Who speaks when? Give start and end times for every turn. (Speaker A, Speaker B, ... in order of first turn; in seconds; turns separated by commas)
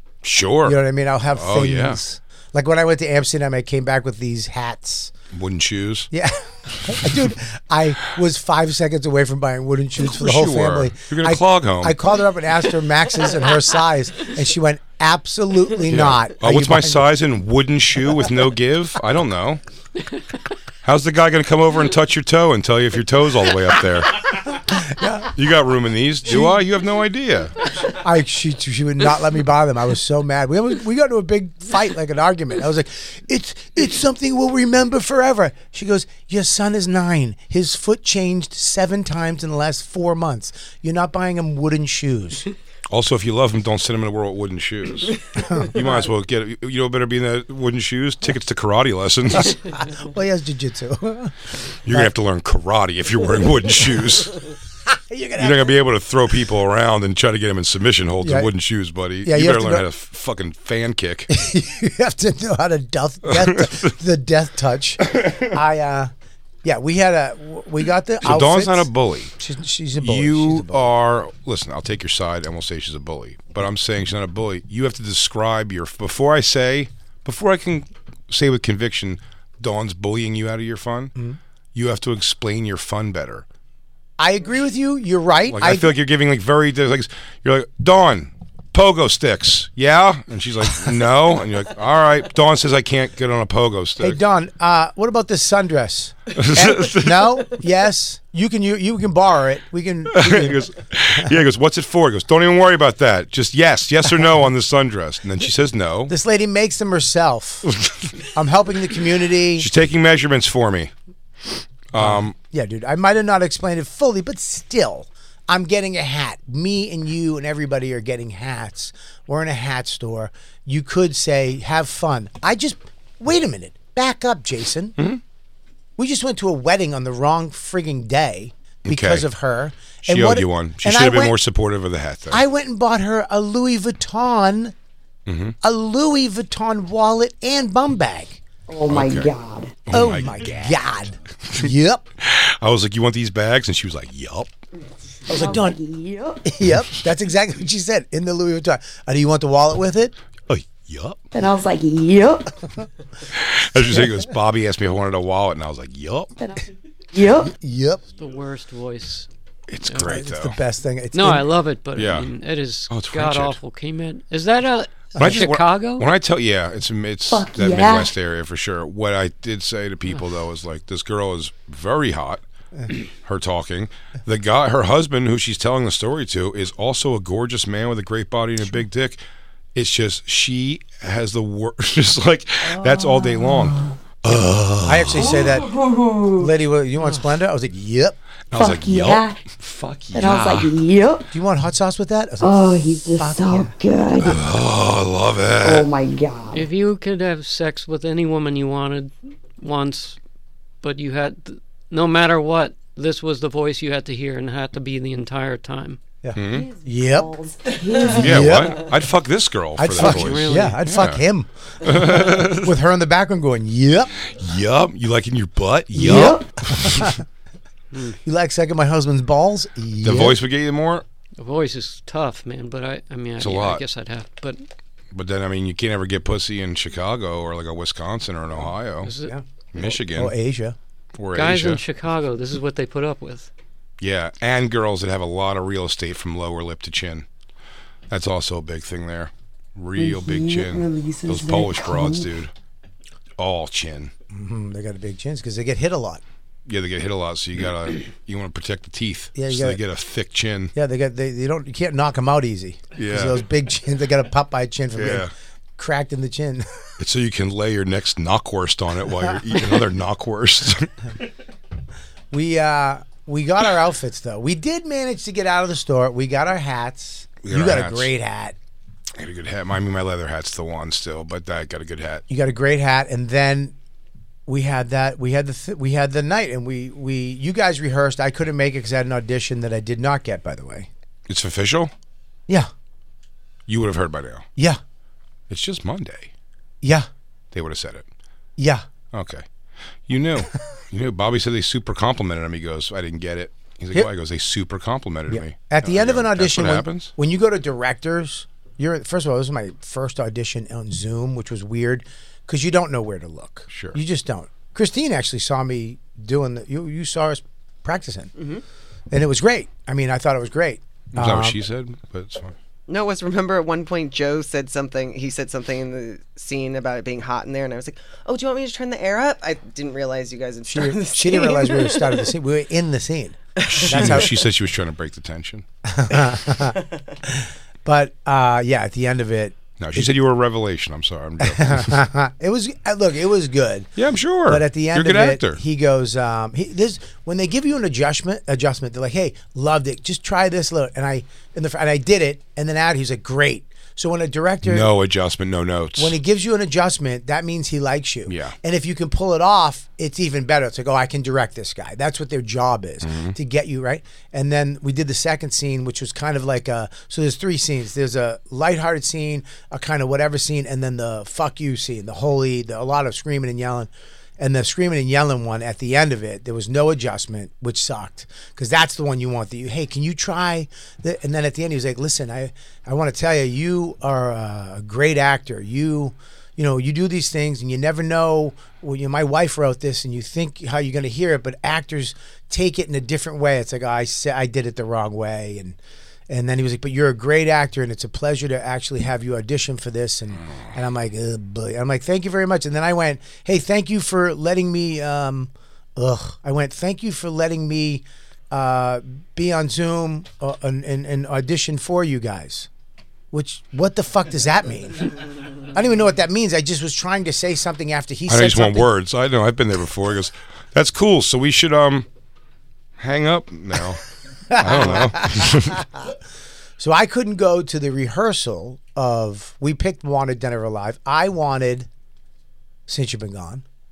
Speaker A: 0.2-0.8, Speaker B: 0.6-5.1, Speaker A: 1.3-2.0, Speaker A: 5.3-6.1, Speaker B: 6.1-17.1, Speaker A: 6.8-7.3, Speaker A: 10.0-12.0, Speaker A: 15.8-19.6, Speaker A: 20.8-24.4, Speaker B: 24.7-25.3, Speaker A: 25.4-27.5, Speaker B: 26.2-26.6, Speaker B: 27.9-42.5, Speaker A: 42.9-49.6, Speaker B: 45.4-45.9, Speaker B: 49.4-51.4, Speaker A: 51.9-54.4, Speaker B: 51.9-52.1, Speaker B: 54.9-55.8, Speaker A: 55.4-61.3, Speaker B: 58.2-58.5, Speaker B: 59.2-59.9, Speaker B: 61.3-66.1, Speaker A: 63.3-63.9, Speaker A: 65.1-65.5, Speaker B: 66.6-70.9, Speaker A: 68.2-69.3, Speaker A: 70.0-81.1, Speaker A: 81.8-83.5, Speaker B: 84.2-86.0, Speaker A: 85.5-94.2, Speaker B: 94.0-101.3, Speaker A: 96.3-97.5, Speaker A: 100.1-106.1, Speaker B: 106.1-107.7, Speaker A: 107.7-108.2, Speaker B: 108.3-109.7, Speaker A: 109.6-110.9, Speaker A: 111.5-112.3, Speaker B: 112.0-125.0, Speaker B: 126.0-131.3, Speaker A: 128.8-129.3, Speaker A: 130.0-132.4, Speaker B: 132.3-134.7, Speaker A: 135.3-135.6, Speaker B: 135.6-138.4, Speaker C: 138.7-139.8, Speaker A: 138.9-139.3, Speaker A: 139.9-140.9, Speaker B: 139.9-142.1, Speaker A: 142.2-144.5, Speaker B: 145.3-145.8, Speaker C: 145.3-146.5, Speaker B: 146.5-150.2, Speaker A: 150.5-151.2, Speaker C: 151.3-152.5, Speaker A: 153.3-156.3, Speaker C: 156.4-157.5, Speaker B: 157.4-158.0, Speaker D: 158.2-159.3, Speaker A: 159.7-160.6, Speaker B: 160.0-161.6, Speaker D: 161.1-166.1, Speaker A: 162.0-162.3, Speaker A: 162.9-163.6, Speaker A: 165.2-172.4, Speaker C: 167.3-168.1, Speaker A: 173.2-179.2, Speaker A: 179.8-185.4, Speaker C: 182.7-183.9, Speaker B: 184.3-185.7, Speaker C: 185.2-186.5, Speaker B: 186.4-188.2, Speaker A: 188.5-190.7, Speaker C: 188.5-189.4, Speaker C: 190.1-191.3, Speaker B: 191.3-193.8, Speaker C: 192.4-194.4, Speaker A: 194.2-195.9, Speaker C: 195.6-196.7, Speaker D: 196.5-200.2, Speaker D: 200.8-206.0, Speaker B: 206.2-207.3, Speaker A: 206.3-206.7, Speaker C: 206.4-208.8, Speaker A: 208.1-211.2, Speaker B: 208.2-208.8, Speaker B: 209.8-214.2, Speaker D: 210.0-210.8, Speaker A: 211.8-212.7, Speaker A: 214.3-217.2, Speaker C: 215.9-216.5, Speaker B: 216.8-217.2, Speaker B: 218.2-220.4, Speaker A: 220.0-221.0, Speaker D: 221.4-224.6, Speaker A: 223.4-223.8, Speaker A: 225.1-229.1, Speaker D: 229.0-229.3, Speaker B: 229.2-230.8, Speaker A: 229.7-230.3, Speaker A: 231.2-231.8, Speaker D: 231.3-233.5, Speaker A: 234.0-237.3, Speaker A: 238.1-242.5, Speaker C: 240.0-242.3, Speaker A: 243.4-244.1, Speaker B: 244.3-246.2, Speaker A: 246.7-250.7, Speaker B: 249.4-249.8, Speaker B: 250.8-256.7, Speaker A: 252.9-253.4, Speaker A: 254.9-255.3, Speaker A: 257.0-260.9, Speaker B: 262.3-268.6, Speaker A: 267.4-268.1, Speaker A: 269.2-272.2, Speaker B: 272.3-273.8, Speaker B: 274.5-280.9, Speaker A: 281.3-281.9, Speaker A: 283.7-284.5, Speaker A: 285.5-286.3, Speaker B: 286.8-287.1, Speaker A: 287.5-288.1, Speaker B: 288.6-288.9, Speaker A: 289.1-289.4, Speaker A: 290.1-297.1, Speaker B: 295.3-308.3, Speaker A: 303.7-304.0, Speaker E: 308.4-308.6, Speaker B: 309.1-311.6, Speaker A: 311.1-312.6, Speaker E: 312.9-322.2, Speaker B: 320.6-324.4, Speaker E: 323.6-324.3, Speaker A: 323.6-325.6, Speaker B: 325.9-330.1, Speaker E: 326.6-327.0, Speaker A: 329.8-332.0, Speaker B: 331.4-333.9, Speaker A: 334.0-335.6, Speaker B: 334.5-344.9, Speaker A: 344.6-346.2, Speaker B: 346.0-385.8, Speaker A: 348.3-348.6, Speaker A: 353.0-353.4, Speaker B: 386.3-402.7, Speaker B: 403.3-405.1, Speaker B: 405.7-408.9, Speaker A: 408.3-412.1, Speaker A: 413.0-415.8, Speaker B: 414.5-416.1, Speaker B: 416.8-421.9, Speaker B: 422.9-423.6